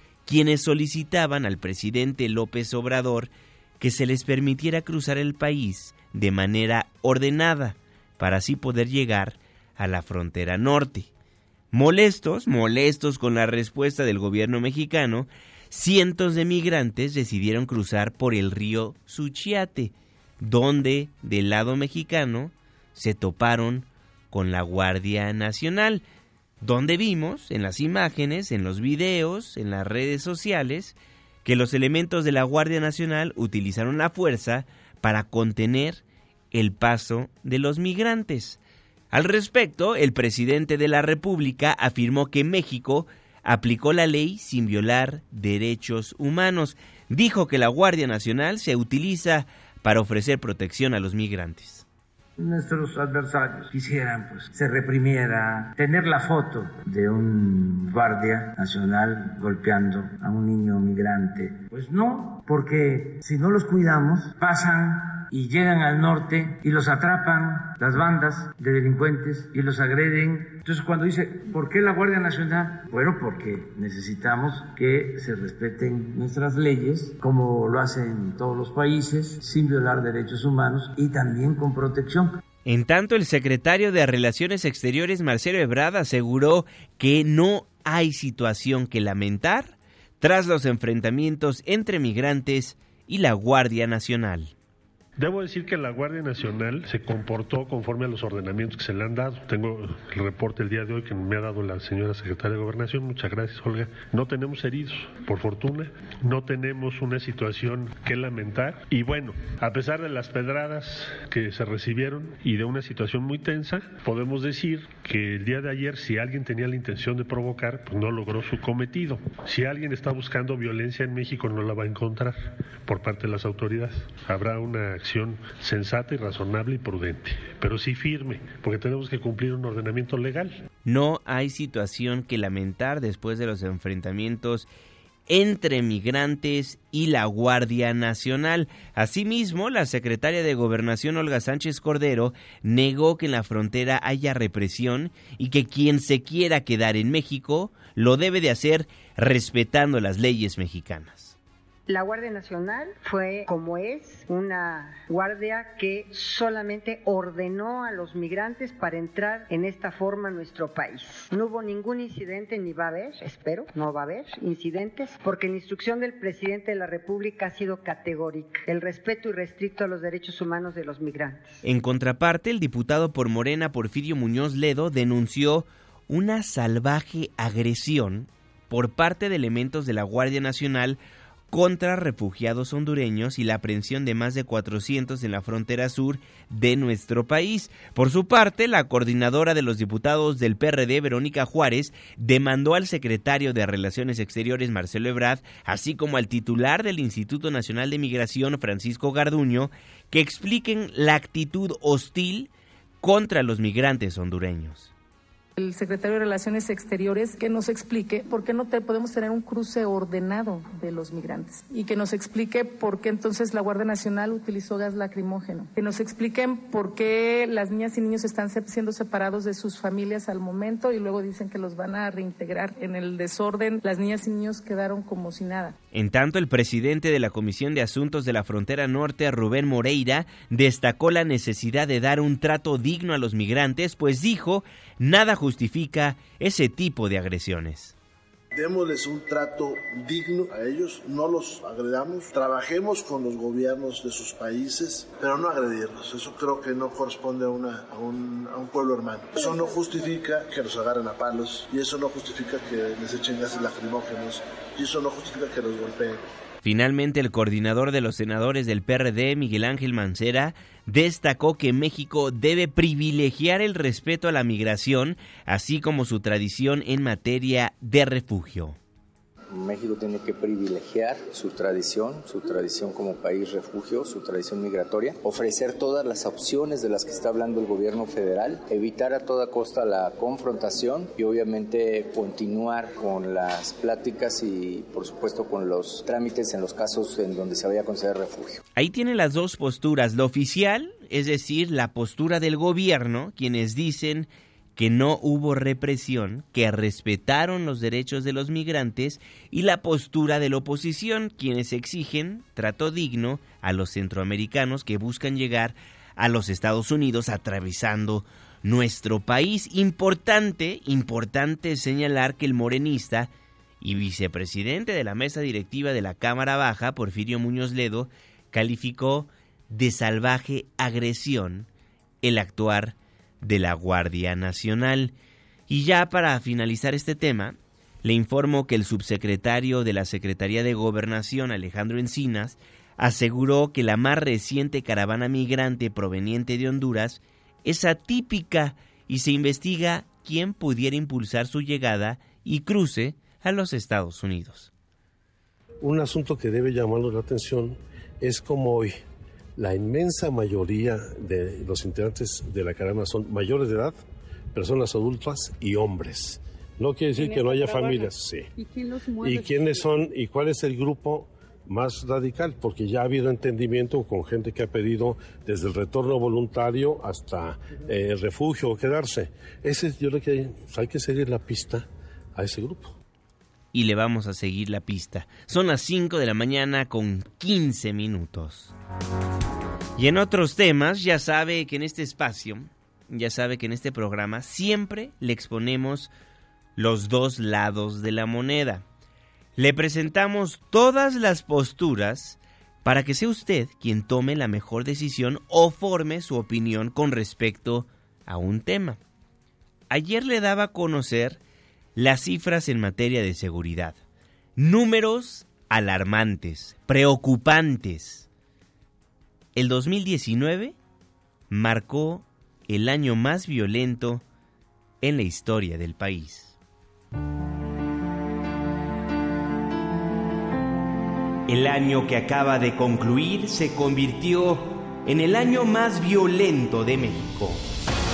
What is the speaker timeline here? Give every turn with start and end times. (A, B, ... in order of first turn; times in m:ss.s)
0:00.2-0:11.1 A
0:11.7-0:26.0 A
0:26.6-0:38.6 A
0:39.1-0:51.8 A
0:52.4-1:22.4 B
1:22.6-1:34.5 A
1:35.2-2:10.6 C
2:10.9-2:14.7 A
2:15.3-2:31.4 A
2:31.9-2:51.6 D
2:51.6-3:01.0 A
3:01.5-3:22.5 A
3:23.0-3:24.9 A
3:25.6-3:45.8 E
3:45.9-3:58.0 A
3:58.5-4:16.2 F
4:16.6-4:28.8 A
4:29.5-4:48.6 G
4:48.8-5:21.7 A
5:22.2-5:25.1 A
5:25.7-5:44.7 A
5:45.8-5:49.0 H
5:49.6-5:54.0 H
5:54.5-5:58.5 H
5:57.2-5:59.8 E
5:59.2-6:13.0 H
6:13.7-6:18.7 A
6:20.0-6:26.1 A
6:26.8-6:28.8 A
6:29.6-6:39.0 A
6:39.9-6:41.4 A
6:42.0-6:44.0 A
6:44.6-6:48.3 A
6:49.6-6:50.8 A
6:51.5-6:54.2 A
6:55.0-6:56.6 A
7:01.5-7:07.6 A